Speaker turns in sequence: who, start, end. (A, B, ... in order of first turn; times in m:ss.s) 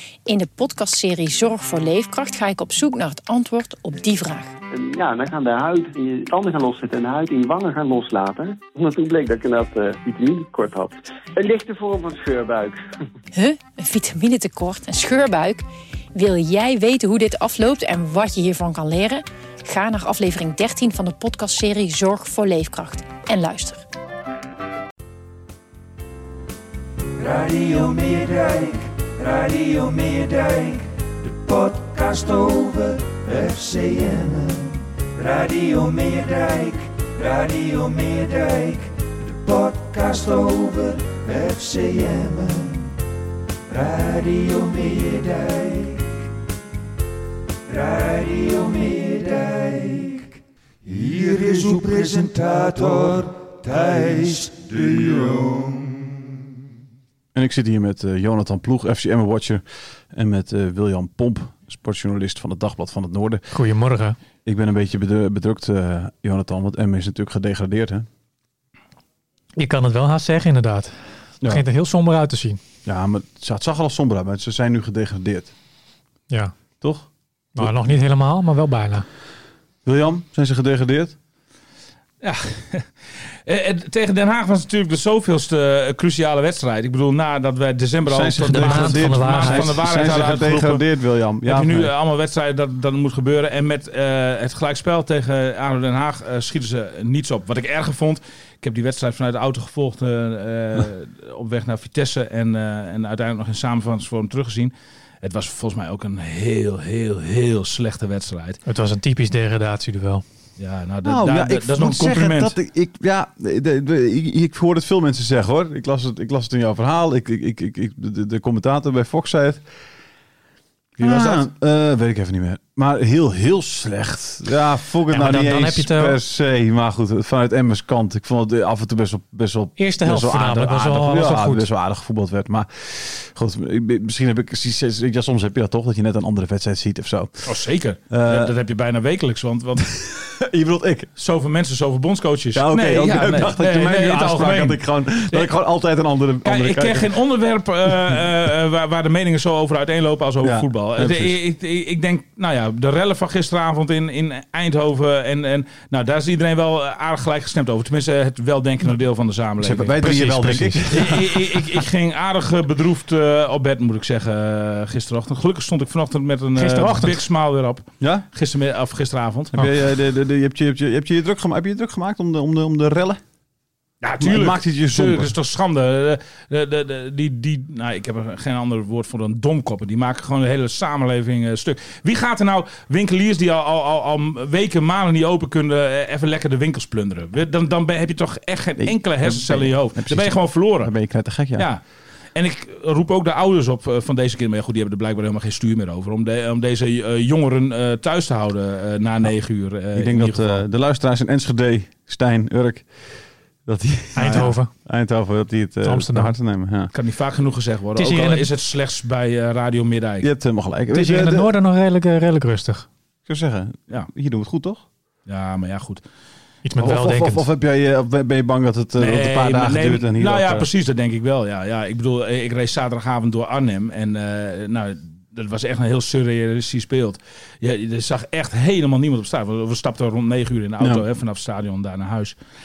0:00.3-0:04.5 A
0:04.7-0:12.8 B
0:13.3-0:23.8 A
0:27.2-0:42.9 C
0:43.7-0:46.0 C
0:47.7-0:56.0 C
0:57.3-1:03.4 D
1:03.5-1:04.2 E
1:04.4-1:08.0 D
1:09.6-1:10.9 E
1:11.4-1:12.6 E
1:12.8-1:15.5 D
1:16.8-1:17.7 D
1:17.6-1:19.0 E
1:19.8-1:21.2 D
1:22.2-1:22.9 F
1:23.4-1:30.8 F
1:28.0-1:31.9 D
1:28.5-1:29.8 E
1:31.4-1:48.6 F
1:48.6-1:50.2 E
1:50.6-1:52.5 F
1:51.0-1:59.6 D
2:01.0-2:01.4 F
2:01.0-2:17.5 D
2:05.1-2:06.2 E
2:09.8-2:11.6 E
2:17.4-2:19.9 F
2:18.1-2:18.5 D
2:19.9-2:21.1 D
2:21.2-2:25.5 F
2:22.5-2:27.2 D
2:26.4-2:40.0 F
2:30.4-2:31.4 D
2:39.6-2:41.8 D
2:40.0-2:40.9 E
2:40.9-2:49.7 F
2:46.6-2:47.2 E
2:48.0-2:48.2 D
2:49.5-2:53.2 D
2:54.0-3:10.9 F
2:54.2-2:55.3 D
3:08.8-3:11.7 D
3:12.3-3:20.6 F
3:19.9-3:22.9 D
3:23.6-3:26.9 D
3:24.1-3:24.7 E
3:25.8-3:26.3 E
3:26.9-3:30.3 F
3:28.0-3:28.5 E
3:30.2-3:31.5 D
3:30.9-3:32.9 E
3:33.3-3:34.8 D
3:35.3-3:36.0 F
3:36.6-3:37.4 E
3:36.8-3:40.7 D
3:39.0-3:52.4 F